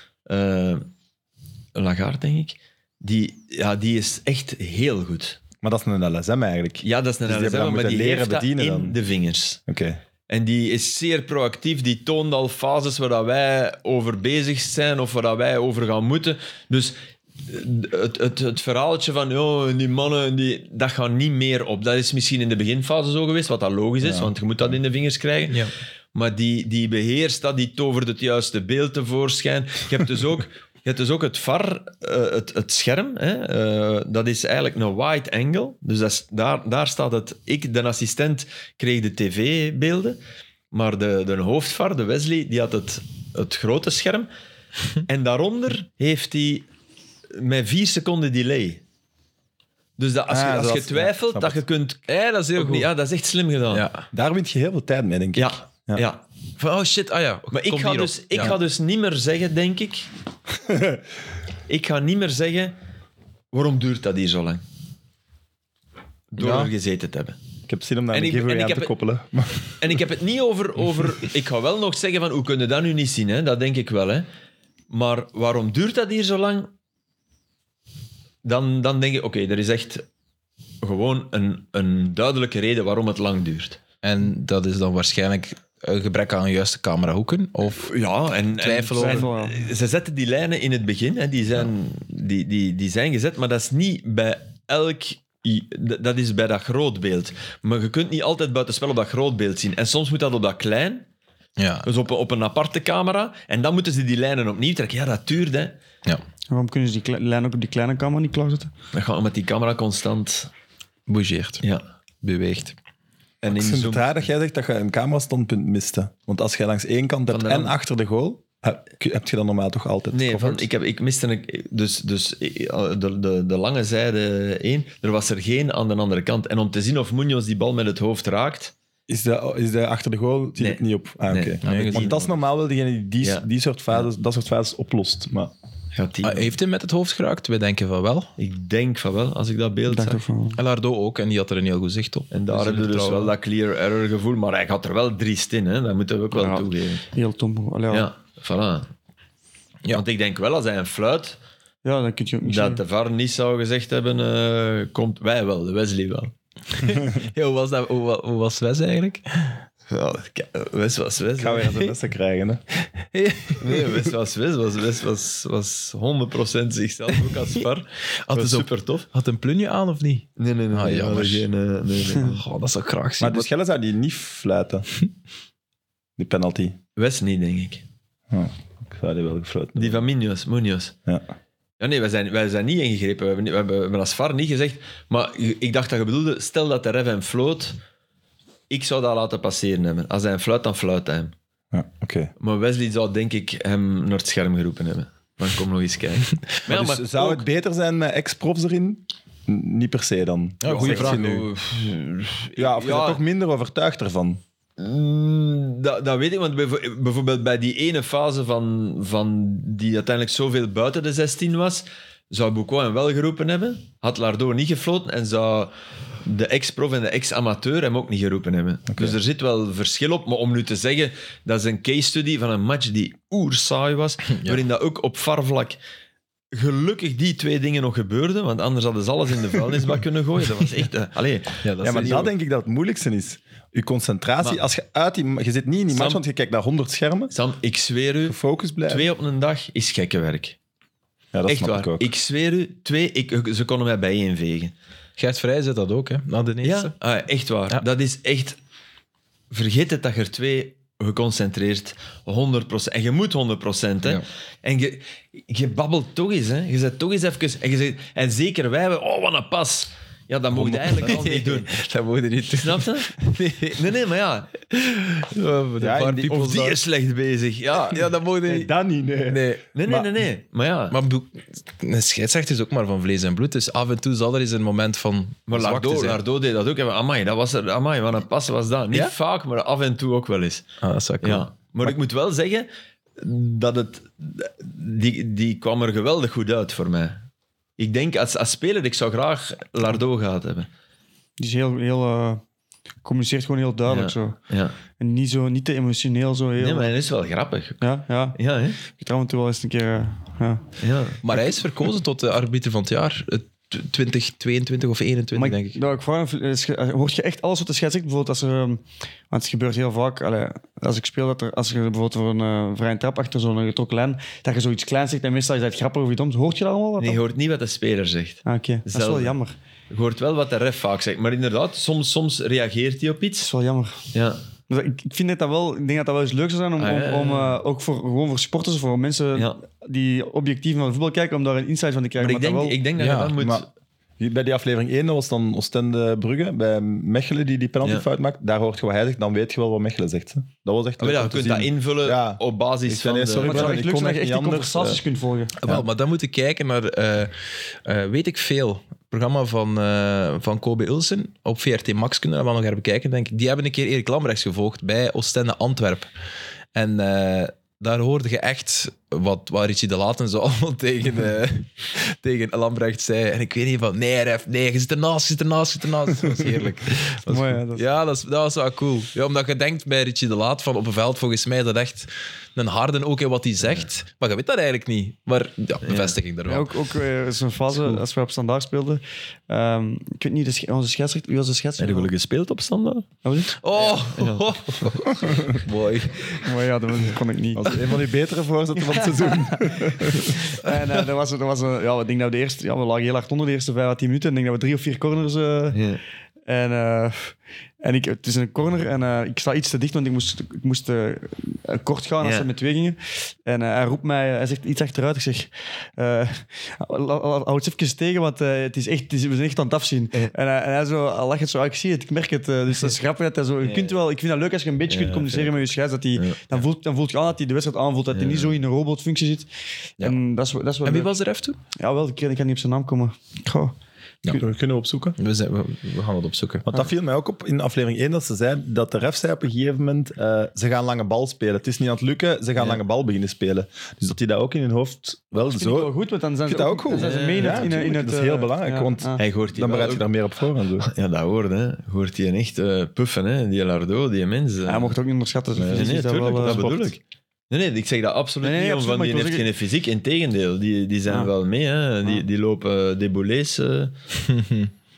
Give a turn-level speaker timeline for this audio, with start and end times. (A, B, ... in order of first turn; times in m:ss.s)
0:00.3-0:00.9 A
0:01.8-0:05.4 A
0:05.6-0:09.0 B
0:06.8-0:09.6 A
0:09.7-0:10.0 B
0:10.3-0:40.2 A
0:24.0-0:24.3 B
0:40.7-0:44.3 A
0:45.1-0:46.7 A
0:47.3-0:48.8 A
0:50.0-0:53.9 A
0:50.3-0:51.6 B
0:52.1-0:52.9 C
0:53.7-0:54.1 C
0:54.1-0:56.0 B
0:55.4-0:56.2 A
0:56.6-0:58.6 C
0:57.5-1:00.1 A
1:00.6-1:01.0 B
1:01.7-1:02.8 A
1:03.5-1:04.6 A
1:06.3-1:07.4 A
1:06.4-1:06.7 B
1:07.7-1:10.0 B
1:08.1-1:08.9 A
1:09.8-1:14.3 A
1:14.9-1:16.7 A
1:18.4-1:20.0 A
1:20.8-1:23.8 A
1:24.0-1:27.9 C
1:27.8-1:41.1 A
1:28.6-1:29.3 C
1:29.0-1:29.6 D
1:41.6-1:41.9 C
1:41.8-1:45.8 A
1:46.5-1:48.7 D
1:48.9-1:50.5 A
1:51.1-1:51.6 C
1:52.2-1:52.8 C
1:53.4-1:54.2 A
1:53.5-2:00.7 B
1:57.3-1:57.7 A
2:00.1-2:08.7 A
2:09.1-2:15.5 B
2:10.6-2:12.2 A
2:11.6-2:12.3 C
2:13.2-2:14.0 A
2:15.9-2:16.5 A
2:16.2-2:18.3 C
2:18.4-2:20.2 A
2:19.9-2:20.6 D
2:20.6-2:23.3 C
2:22.3-2:27.0 A
2:26.3-2:28.1 D
2:27.9-2:28.9 A
2:29.9-2:31.4 A
2:31.8-2:32.8 D
2:32.4-2:36.3 A
2:36.7-2:39.6 C
2:39.9-2:41.9 A
2:41.4-2:42.6 B
2:43.0-2:44.0 C
2:43.6-2:49.0 A
2:48.3-2:51.5 C
2:50.4-2:52.4 A
2:52.1-2:53.5 C
2:53.2-2:54.9 B
2:56.2-2:56.8 B
2:57.0-2:57.8 A
2:58.3-3:00.0 B
2:59.8-3:01.0 A
3:01.8-3:07.8 A
3:08.7-3:11.3 A
3:11.7-3:12.3 B
3:12.4-3:17.4 A
3:16.7-3:21.5 B
3:20.6-3:21.4 C
3:20.6-3:23.2 A
3:22.6-3:24.4 B
3:24.8-3:45.8 A
3:46.5-3:51.6 A
3:51.6-3:52.3 C
3:51.8-3:57.3 B
3:55.9-3:56.2 A
3:57.3-3:58.4 A
3:58.3-3:59.1 B
3:58.9-4:00.6 A
4:01.3-4:02.1 B
4:01.5-4:04.7 A
4:05.2-4:06.9 C
4:06.6-4:08.6 A
4:09.5-4:21.7 A
4:20.5-4:24.0 C
4:22.6-4:23.2 A
4:23.8-4:25.3 A
4:25.3-4:26.8 C
4:25.8-4:26.8 B
4:26.3-4:28.1 A
4:27.9-4:28.7 C
4:28.5-4:30.1 B
4:29.3-4:29.7 C
4:29.7-4:31.0 A
4:30.9-4:36.2 C
4:35.5-4:40.7 A
4:40.8-4:41.9 C
4:41.2-4:47.3 A
4:47.8-4:50.7 A
4:51.4-4:52.4 D
4:53.0-4:54.4 D
4:53.9-4:54.8 A
4:55.0-4:57.0 D
4:56.6-4:57.8 A
4:57.8-5:00.6 D
4:58.4-4:58.8 A
5:00.8-5:01.2 A
5:01.2-5:05.8 C
5:05.4-5:17.2 D
5:17.0-5:19.4 A
5:18.4-5:19.6 D
5:19.9-5:23.5 A
5:23.4-5:24.1 D
5:24.1-5:24.4 A
5:24.7-5:32.8 D
5:26.8-5:27.6 A
5:29.4-5:29.6 A
5:32.2-5:33.7 A
5:33.0-5:33.4 C
5:33.4-5:33.7 B
5:34.2-5:45.0 B
5:41.0-5:43.8 A
5:43.4-5:45.5 D
5:45.6-5:47.3 C
5:47.8-5:56.1 C
5:56.8-6:16.7 C
6:07.3-6:07.8 D
6:15.8-6:16.2 A
6:16.5-6:22.1 D
6:21.8-6:23.1 A
6:23.2-6:23.6 D
6:23.6-6:26.5 C
6:23.8-6:24.5 A
6:26.4-6:27.8 D
6:27.6-6:30.4 B
6:28.9-6:35.8 D
6:35.7-6:36.0 A
6:36.5-7:01.1 D
6:42.2-6:42.5 A
6:53.6-6:54.0 A
6:54.9-6:56.4 A
6:58.1-6:58.5 A
7:00.8-7:01.6 C
7:01.8-7:03.7 D
7:04.3-7:05.2 B
7:05.2-7:06.7 C
7:06.6-7:15.9 B
7:15.3-7:19.2 D
7:16.4-7:20.9 B
7:16.9-7:17.7 A
7:19.2-7:20.0 A
7:20.8-7:25.0 A
7:24.7-7:26.7 D
7:25.6-7:27.0 B
7:25.7-7:27.0 A
7:27.5-7:34.0 A
7:28.4-7:29.5 D
7:34.2-7:34.7 C